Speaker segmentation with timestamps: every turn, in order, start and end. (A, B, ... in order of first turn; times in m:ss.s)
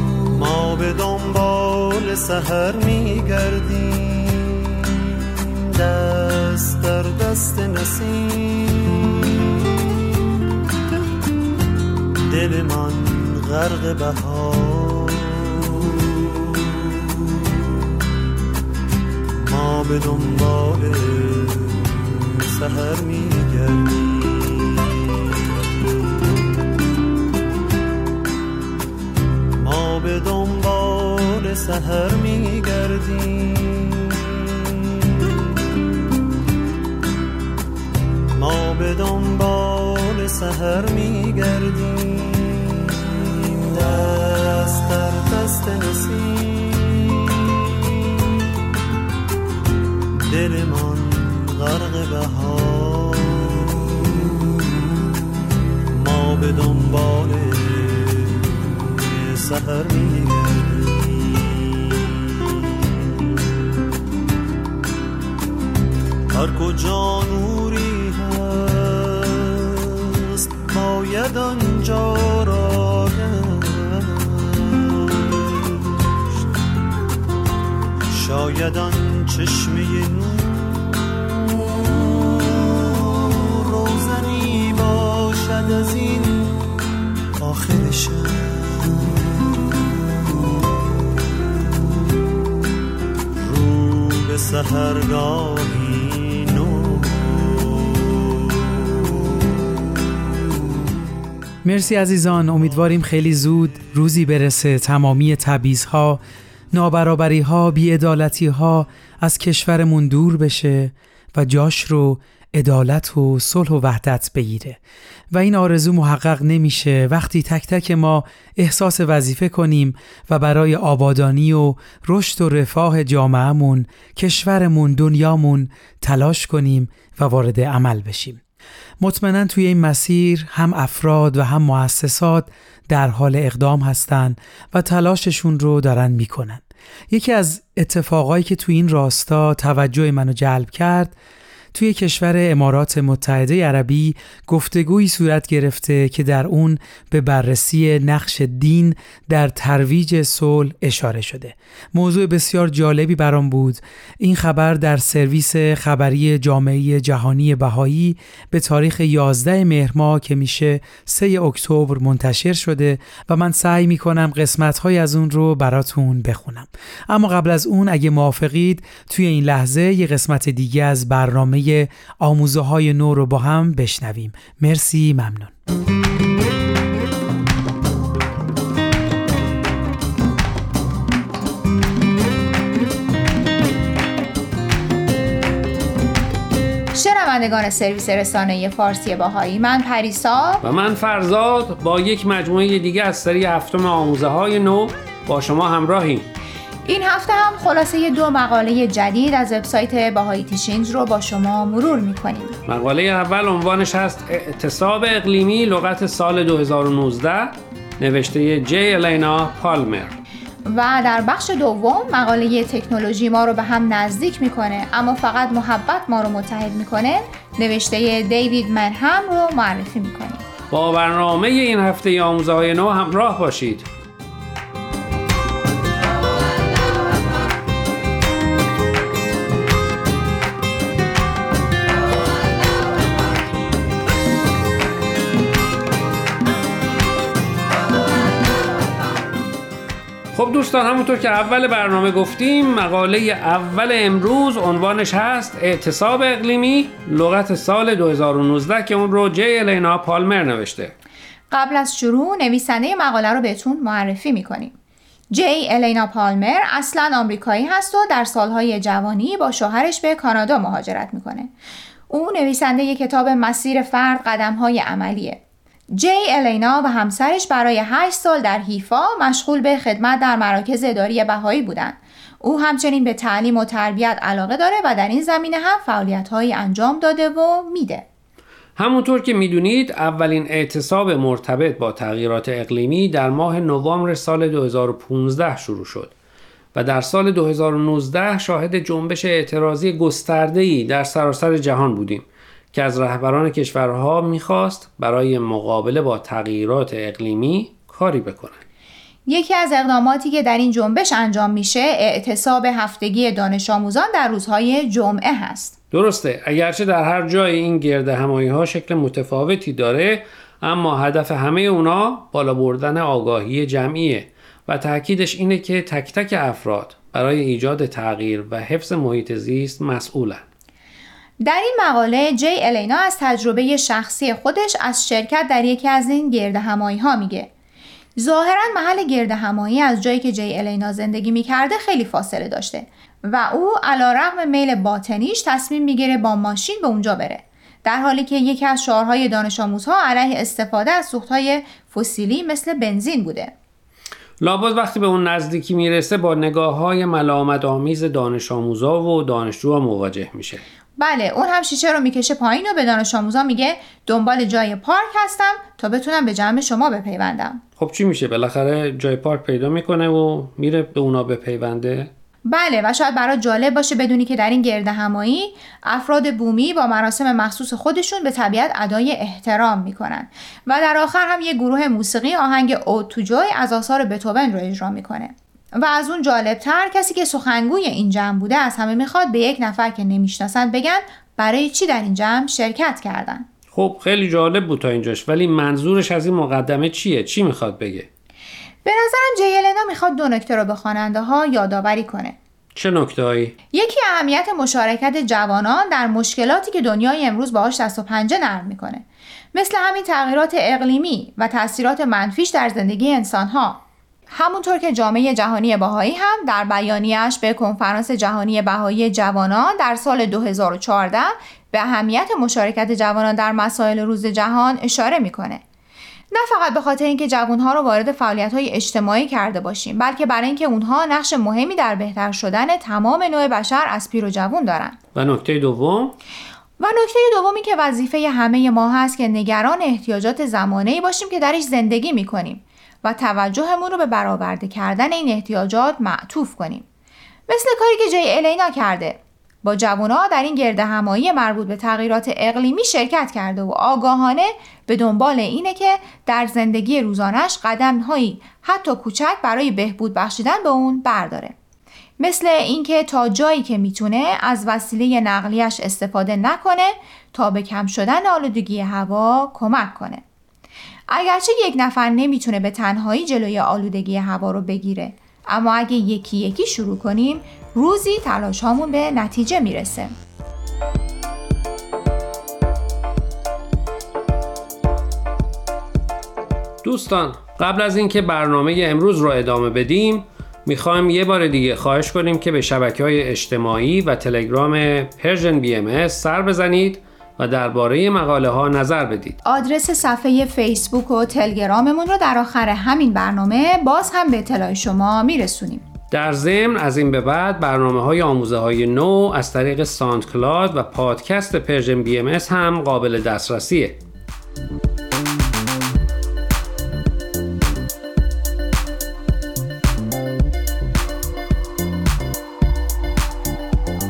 0:00.3-0:09.9 A
0:12.2-0:17.9 A
0:19.4-0:25.7 A
0:29.6-0:35.3 A
0:38.3-0:48.1 A
0:50.3-0:54.6 A
0:55.9-1:03.5 A
1:06.3-1:16.2 A
1:18.1-1:26.8 A
1:27.4-1:30.0 A
1:33.4-1:39.5 A
1:41.6-1:46.2 B
1:46.7-1:54.8 B
1:55.3-2:08.4 B
2:09.0-2:21.1 B
2:21.7-2:55.5 B
3:06.9-3:10.6 C
3:10.6-3:16.3 D
3:16.8-3:22.6 C
3:22.7-3:30.2 D
3:30.6-3:40.4 C
3:40.7-3:43.8 D
4:00.3-4:10.9 D
4:11.5-4:14.7 C
4:15.3-4:21.5 C
4:22.1-4:25.4 C
4:25.9-4:38.0 C
4:38.8-4:46.1 D
4:46.7-4:58.6 D
4:59.3-5:05.7 C
5:05.9-5:20.4 D
5:21.4-5:27.5 C
5:28.2-5:43.5 C
5:44.4-5:50.6 D
5:51.0-5:57.6 C
5:57.8-6:02.1 D
6:02.5-6:23.4 C
6:23.7-6:28.1 D
6:28.8-6:32.4 C
6:32.8-6:33.5 D
6:33.7-6:55.6 C
6:56.3-7:05.0 C
7:05.1-7:06.2 D
7:06.8-7:16.8 C
7:17.5-7:31.5 C
7:32.2-7:40.2 C
7:41.1-7:50.1 C
7:56.8-8:09.4 D
8:09.4-8:15.8 C
8:16.1-8:24.0 D